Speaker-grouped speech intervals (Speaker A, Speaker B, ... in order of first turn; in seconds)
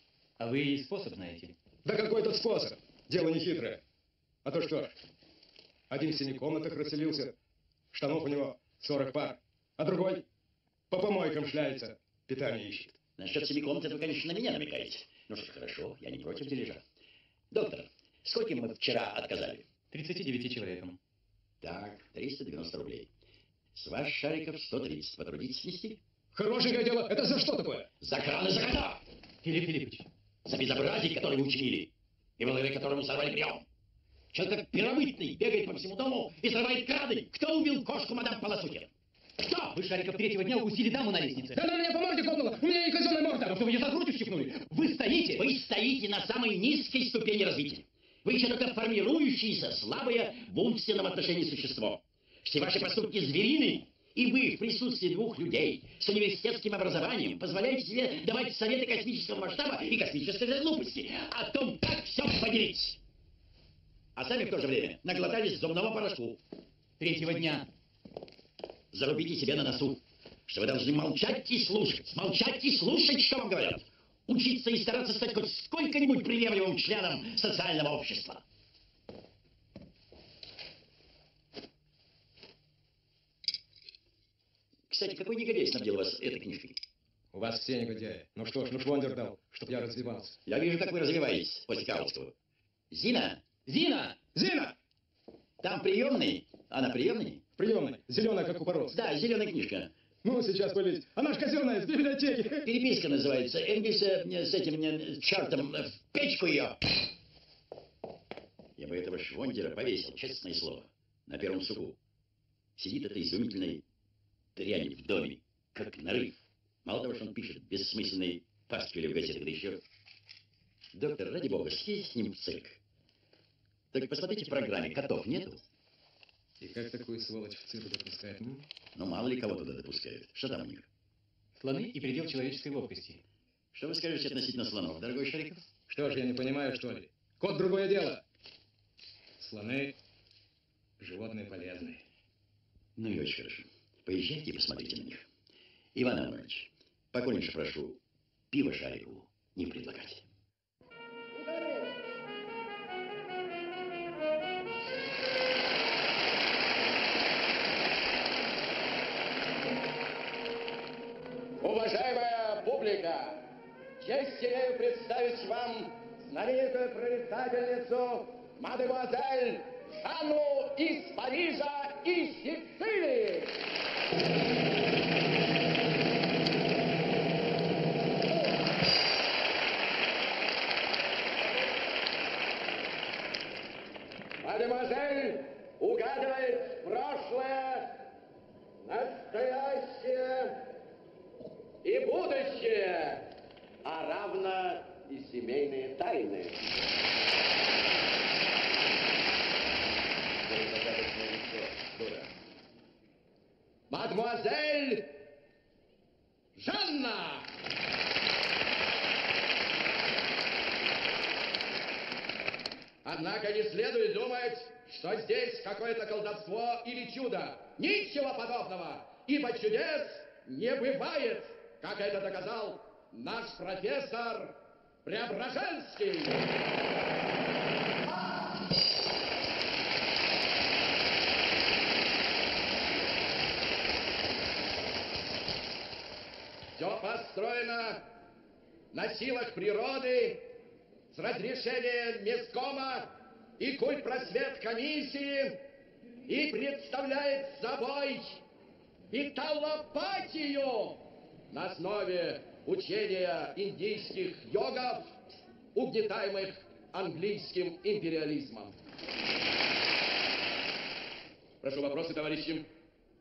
Speaker A: 0.4-1.6, 19.9-21.0, 29.4-30.1, 39.6-41.6, 43.4-45.5, 67.0-67.7, 131.6-133.2
Speaker B: 1.8-3.8, 4.4-5.0, 5.9-7.3, 7.9-10.2, 10.9-13.0, 26.3-27.9, 41.5-43.5, 87.3-90.4, 94.3-94.7, 97.6-99.0, 100.2-102.6, 126.6-128.6, 135.9-138.2, 139.4-139.9, 141.0-142.0
Speaker C: 13.2-16.8, 17.5-19.7, 21.6-23.1, 23.7-26.0, 28.0-29.0, 30.4-33.7, 34.3-38.9, 45.3-63.0, 64.1-66.4, 68.9-78.4, 84.9-86.8, 90.5-92.3, 92.9-94.2, 95.6-97.4, 98.9-99.9, 102.6-106.8, 108.8-112.0, 112.8-113.8, 114.5-119.8, 120.9-122.8, 123.9-125.6, 128.9-130.9, 133.7-135.7, 142.9-145.3, 145.9-150.2
Speaker D: 161.6-163.5, 164.0-173.6, 184.4-188.0, 188.8-190.7, 191.8-196.6, 200.4-202.3, 203.9-205.2, 206.5-207.5, 213.0-226.5, 236.8-238.0, 238.9-240.5, 241.1-245.6, 246.2-248.4, 249.1-255.2, 255.7-258.8, 261.6-262.6